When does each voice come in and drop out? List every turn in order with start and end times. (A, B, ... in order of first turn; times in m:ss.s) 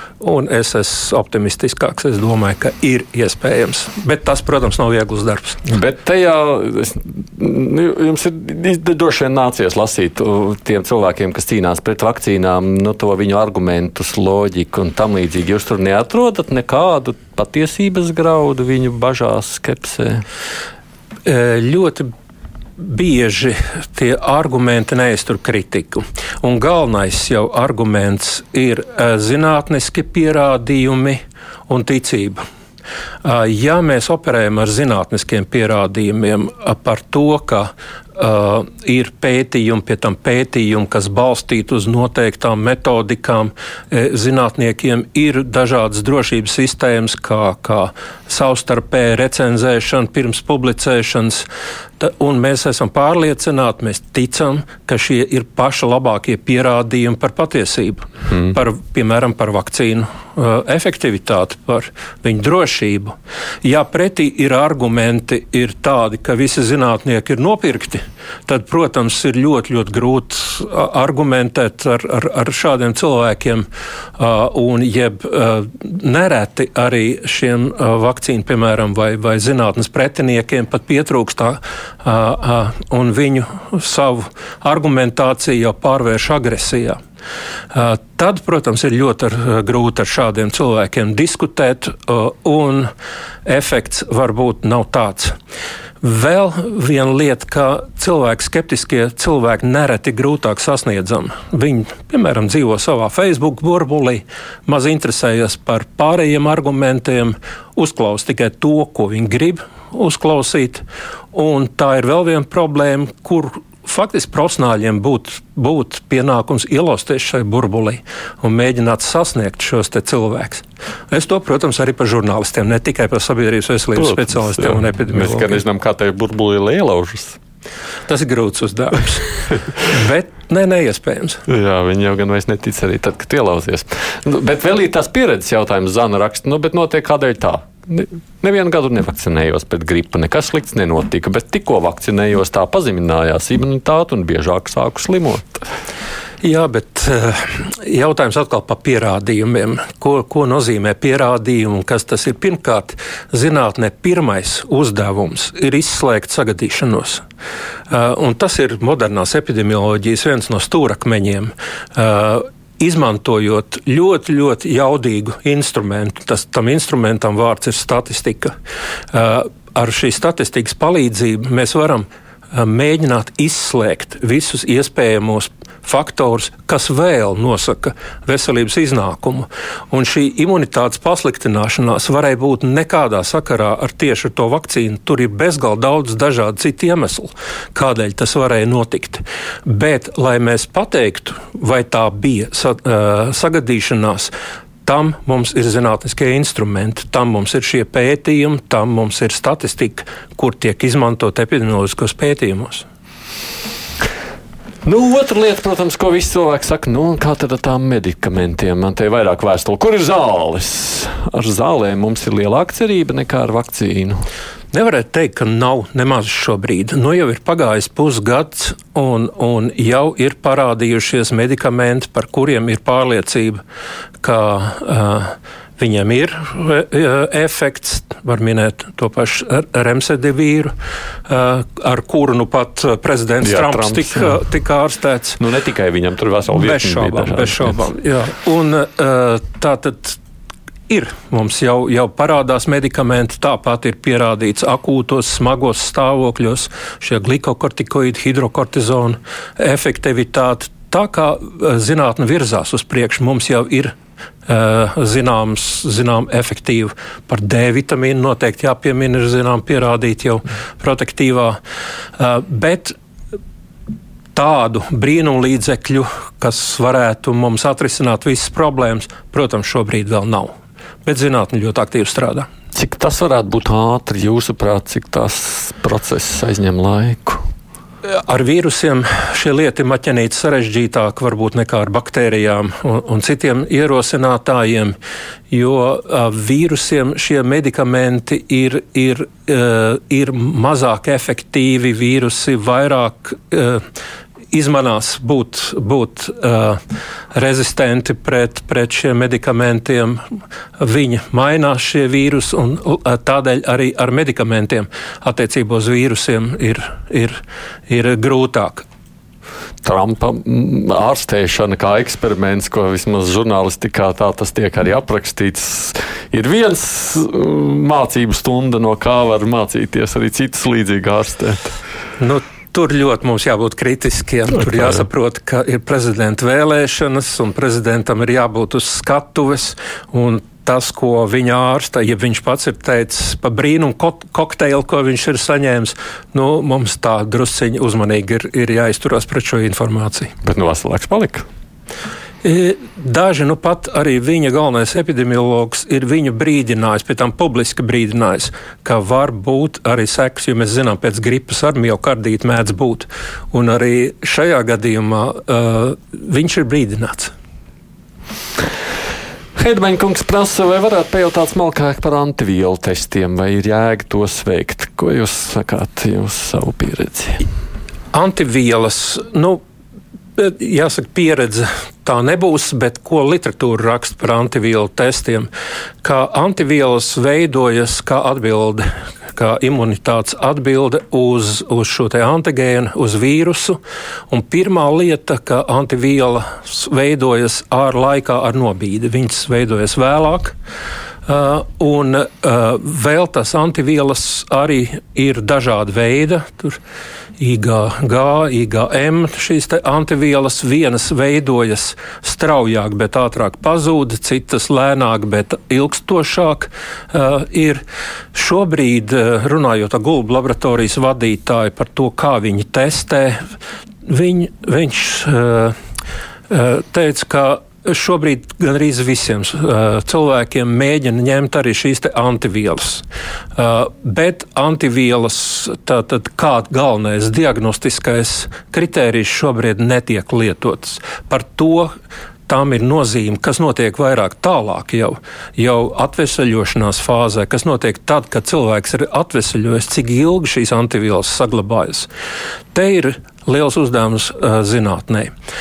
0:00.2-0:05.6 A
0:05.6-0:20.2 B
0:21.2-0:22.1 A
0:22.8-0:32.4 A
0:33.2-0:51.4 A
0:52.0-1:03.1 A
1:03.6-1:13.6 A
1:14.2-1:27.0 A
1:27.7-1:32.9 A
1:33.4-1:35.3 A
1:36.0-2:05.6 A
2:04.0-2:07.4 B
2:08.1-2:11.4 A
2:11.5-2:25.6 B
2:26.4-2:37.2 A
2:37.9-2:48.5 A
2:49.1-3:14.3 A
3:14.8-3:22.8 A
3:24.8-3:34.2 B
3:34.7-3:43.6 A
3:44.2-3:50.7 A
3:51.3-3:55.4 A
3:53.4-3:54.4 B
3:55.4-3:57.9 B
3:56.5-4:00.2 A
4:00.9-4:13.9 A
4:14.4-4:21.6 A
4:22.2-4:22.9 A
4:24.3-4:30.5 A
4:31.0-4:32.5 A
4:32.7-4:37.4 B
4:38.0-4:45.0 A
4:45.5-4:53.8 A
4:54.5-4:56.8 A
4:57.3-5:00.2 A
5:00.8-5:08.8 A
5:09.8-5:21.7 B
5:22.2-5:40.3 A
5:40.4-5:41.4 B
5:42.4-5:57.3 A
5:59.6-6:07.4 B
6:08.1-6:09.6 A
6:10.4-6:15.5 A
6:16.0-6:23.8 A
6:24.3-6:30.5 A
6:31.2-6:36.8 A
6:37.4-6:47.8 A
6:48.3-6:53.4 A
6:54.0-6:55.8 A
6:56.5-7:03.0 A
7:03.5-7:11.9 A
7:12.5-7:22.1 A
7:22.7-7:25.3 A